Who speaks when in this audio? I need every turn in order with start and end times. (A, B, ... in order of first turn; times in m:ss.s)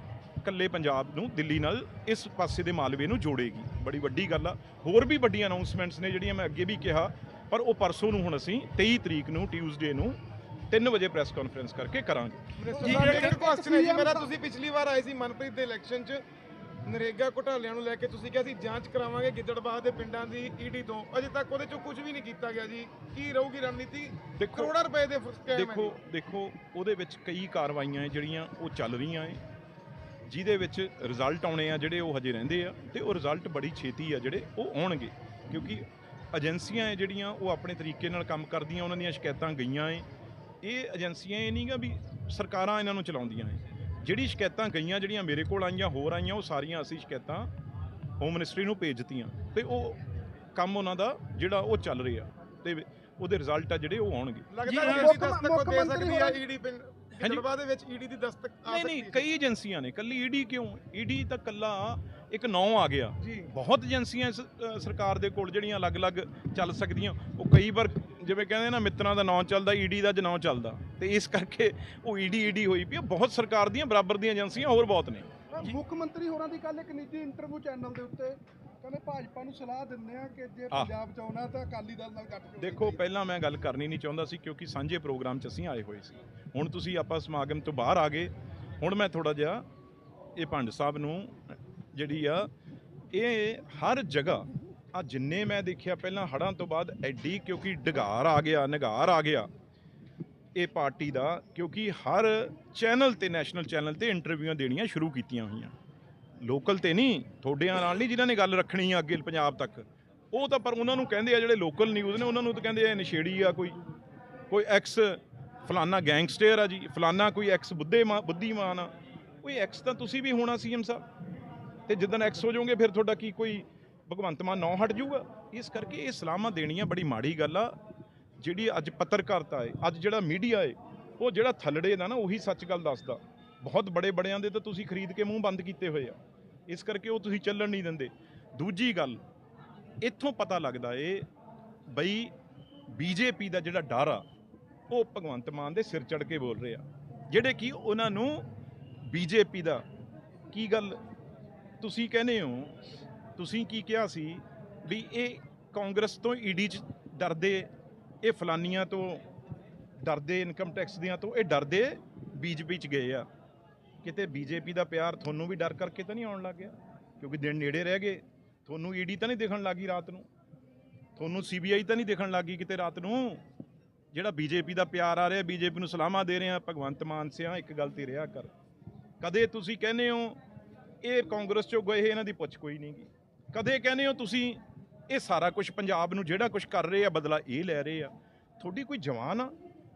0:00.4-0:10.2 A
0:10.7-0:12.4 A
0:12.6-0:16.2 B
0:12.7-0:14.3 C
0:16.8-0:25.9 B
0:24.4-0:24.7 A
0:25.5-0:29.4 A
0:30.3-0:40.0 A
0:40.6-0:47.5 A
0:48.2-0:50.0 A
0:50.5-0:55.1 A
0:54.5-0:59.3 B
0:54.6-0:56.4 C
0:57.2-0:57.4 A
0:58.6-1:15.7 A
1:03.2-1:03.5 B
1:15.5-1:23.0 C
1:22.6-1:29.6 A
1:30.4-1:32.5 A
1:33.1-1:39.5 A
1:40.6-1:45.7 A
1:46.4-1:53.8 A
1:54.5-2:01.1 A
2:01.9-2:07.8 A
2:08.4-2:19.2 A
2:20.0-2:21.3 A
2:21.9-2:22.3 A
2:22.9-2:24.2 A
2:24.9-2:28.4 A
2:29.0-2:29.8 A
2:30.5-2:31.0 A
2:31.8-2:32.8 A
2:33.4-2:37.7 A
2:38.2-2:39.2 A
2:40.0-2:43.3 A
2:44.0-2:50.3 A
2:51.2-2:53.4 A
2:54.1-2:58.5 A
2:59.2-3:00.4 A
3:01.0-3:09.5 A